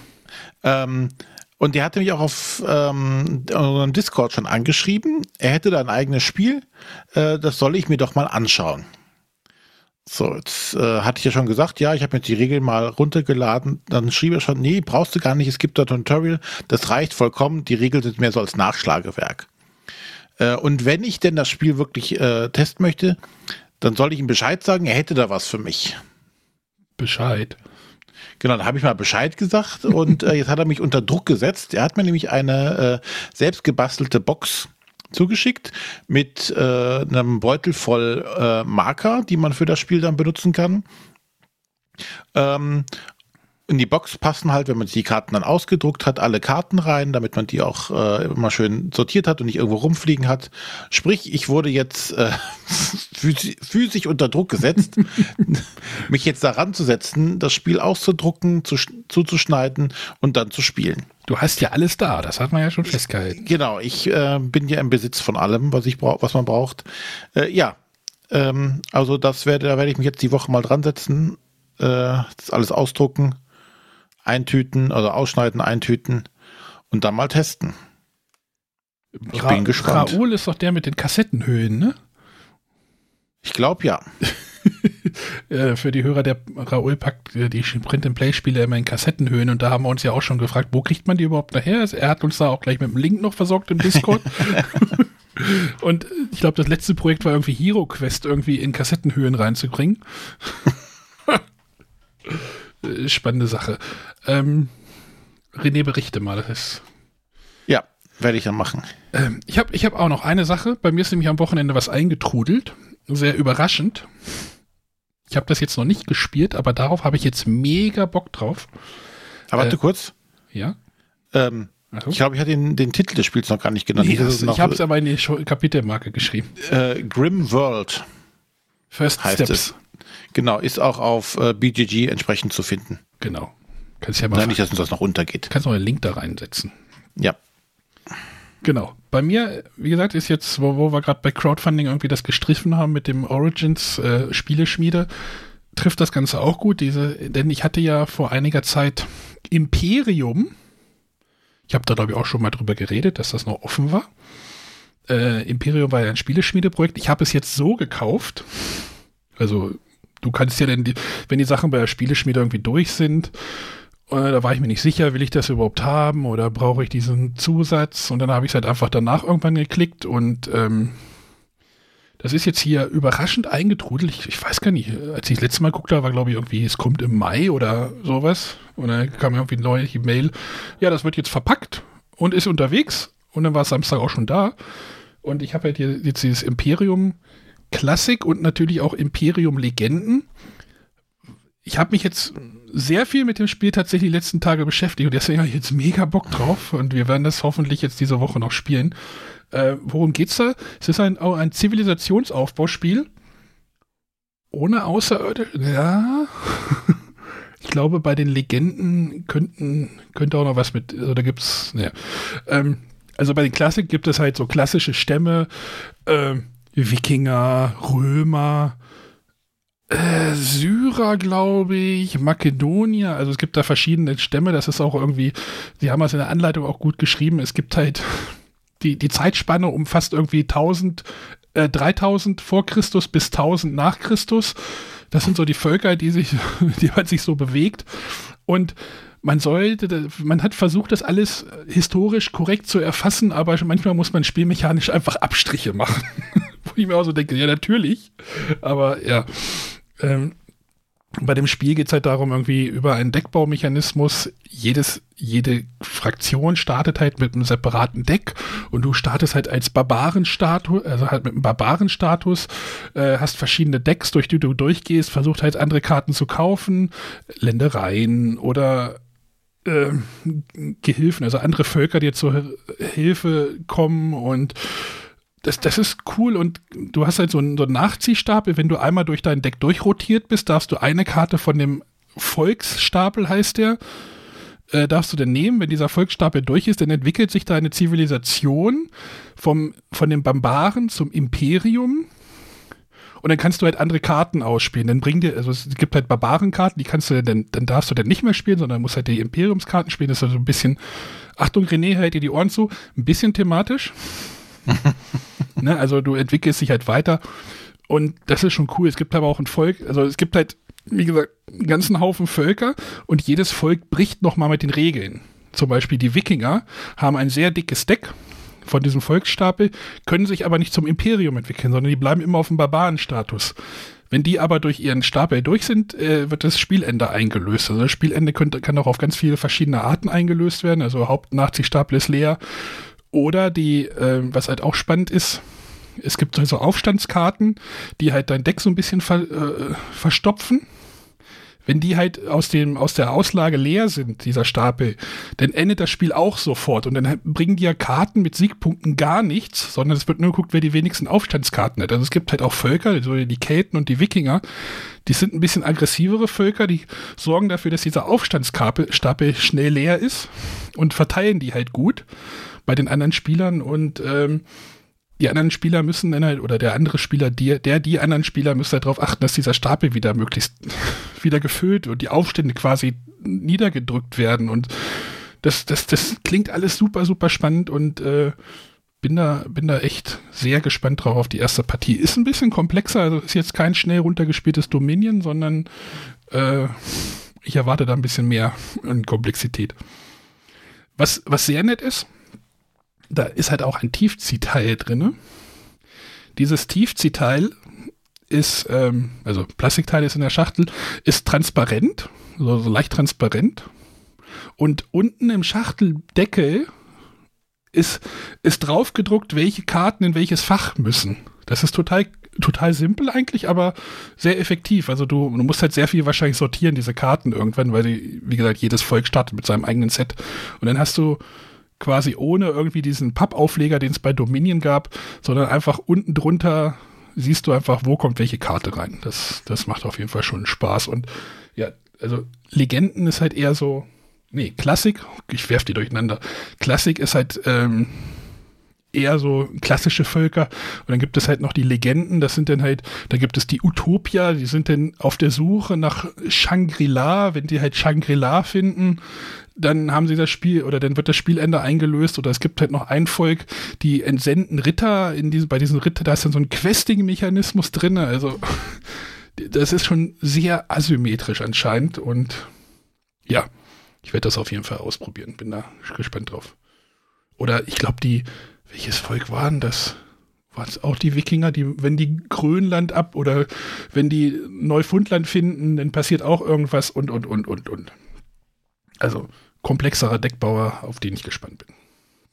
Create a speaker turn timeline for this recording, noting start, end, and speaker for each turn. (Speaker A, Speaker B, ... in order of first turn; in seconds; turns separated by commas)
Speaker A: 0.6-8.9, Speaker A: 10.1-19.5, Speaker A: 20.4-23.2, Speaker A: 23.8-26.0, Speaker B: 27.0-27.6, Speaker A: 28.4-40.9, Speaker A: 42.3-42.9, Speaker A: 43.7-61.1, Speaker B: 61.3-63.4, Speaker A: 63.4-67.8, Speaker A: 68.3-73.4, Speaker A: 74.2-76.3, Speaker A: 76.9-77.8, Speaker B: 79.2-82.0, Speaker A: 79.3-80.2, Speaker A: 83.4-84.0, Speaker B: 84.2-100.8, Speaker B: 102.3-104.7, Speaker B: 105.6-106.8, Speaker A: 107.7-108.9, Speaker B: 109.1-114.5, Speaker B: 115.3-118.7, Speaker A: 119.5-120.1, Speaker A: 121.3-124.8, Speaker B: 121.9-122.2, Speaker B: 124.0-126.5, Speaker A: 126.6-128.1, Speaker B: 128.9-129.8, Speaker A: 129.2-129.7, Speaker A: 130.3-133.0, Speaker B: 133.2-134.6, Speaker A: 134.3-135.5, Speaker B: 135.5-136.7, Speaker B: 138.6-145.1, Speaker B: 145.7-150.5, Speaker B: 151.7-154.1, Speaker B: 155.1-171.0, Speaker B: 172.2-184.5, Speaker B: 185.2-187.2, Speaker B: 187.7-190.3, Speaker B: 191.7-203.1, Speaker B: 204.5-207.0, Speaker B: 207.6-218.8, Speaker B: 219.9-250.3, Speaker B: 251.2-269.0, Speaker B: 269.6-283.8, Speaker B: 284.7-292.1, Speaker B: 293.2-304.4, Speaker B: 305.6-323.5, Speaker B: 324.1-335.4, Speaker B: 336.0-340.6, Speaker B: 341.7-362.1, Speaker B: 362.7-364.4, Speaker B: 365.2-378.4, Speaker B: 379.0-385.7, Speaker B: 386.3-389.7, Speaker B: 391.0-392.1, Speaker B: 393.1-395.2, Speaker B: 396.4-397.5, Speaker B: 398.3-403.7, Speaker B: 404.6-406.7, Speaker B: 407.7-421.2, Speaker B: 421.8-438.2, Speaker B: 438.9-462.5, Speaker B: 464.0-466.5, Speaker B: 467.4-470.0, Speaker B: 470.5-477.9, Speaker B: 479.0-481.7